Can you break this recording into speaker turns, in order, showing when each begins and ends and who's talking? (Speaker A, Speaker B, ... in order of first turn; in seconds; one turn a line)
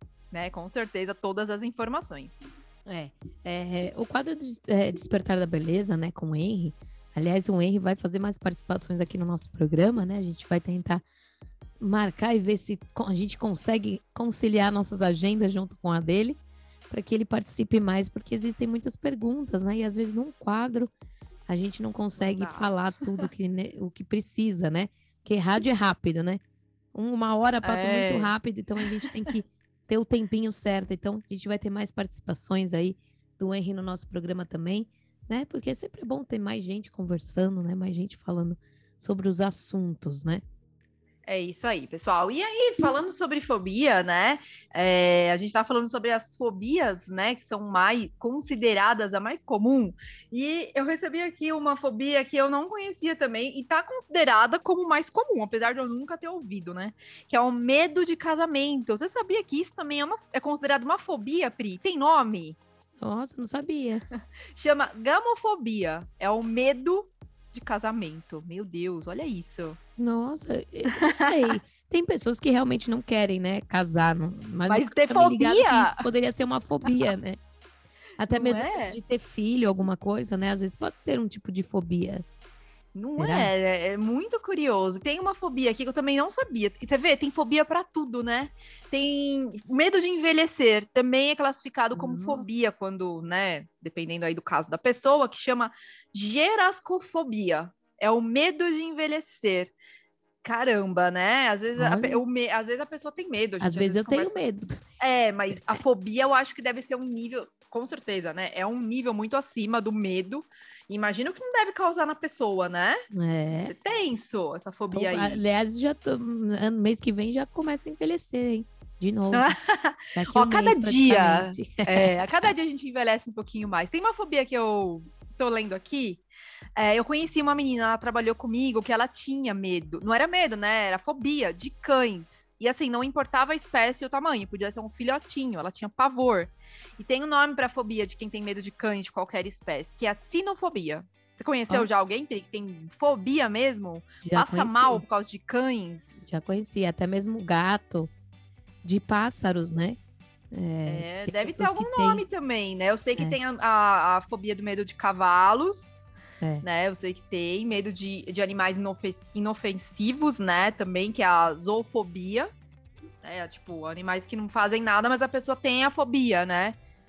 Speaker A: 0.3-2.5
Speaker B: 2.9-11.0
Speaker B: 11.8-16.4
Speaker B: 16.9-20.9
Speaker B: 21.5-26.4
Speaker A: 22.2-23.2
Speaker B: 26.9-40.4
Speaker A: 27.6-28.3
Speaker A: 41.3-62.6
Speaker B: 63.0-64.0
Speaker A: 64.5-69.8
Speaker B: 70.0-77.4
Speaker A: 70.9-71.3
Speaker A: 74.7-76.0
Speaker B: 78.2-82.2
Speaker A: 78.3-79.0
Speaker A: 82.9-99.7
Speaker B: 83.1-83.5
Speaker B: 91.9-92.5
Speaker A: 100.4-104.4
Speaker B: 101.8-102.2
Speaker B: 103.6-104.8
Speaker A: 105.0-113.0
Speaker B: 105.5-105.8
Speaker B: 113.1-113.7
Speaker A: 113.6-115.4
Speaker B: 114.9-119.5
Speaker A: 119.3-126.2
Speaker B: 120.2-122.1
Speaker A: 126.8-146.2
Speaker B: 144.2-145.0
Speaker B: 146.2-148.1
Speaker B: 148.8-150.0
Speaker B: 150.5-152.2
Speaker A: 150.9-156.0
Speaker A: 156.6-162.5
Speaker A: 163.2-166.8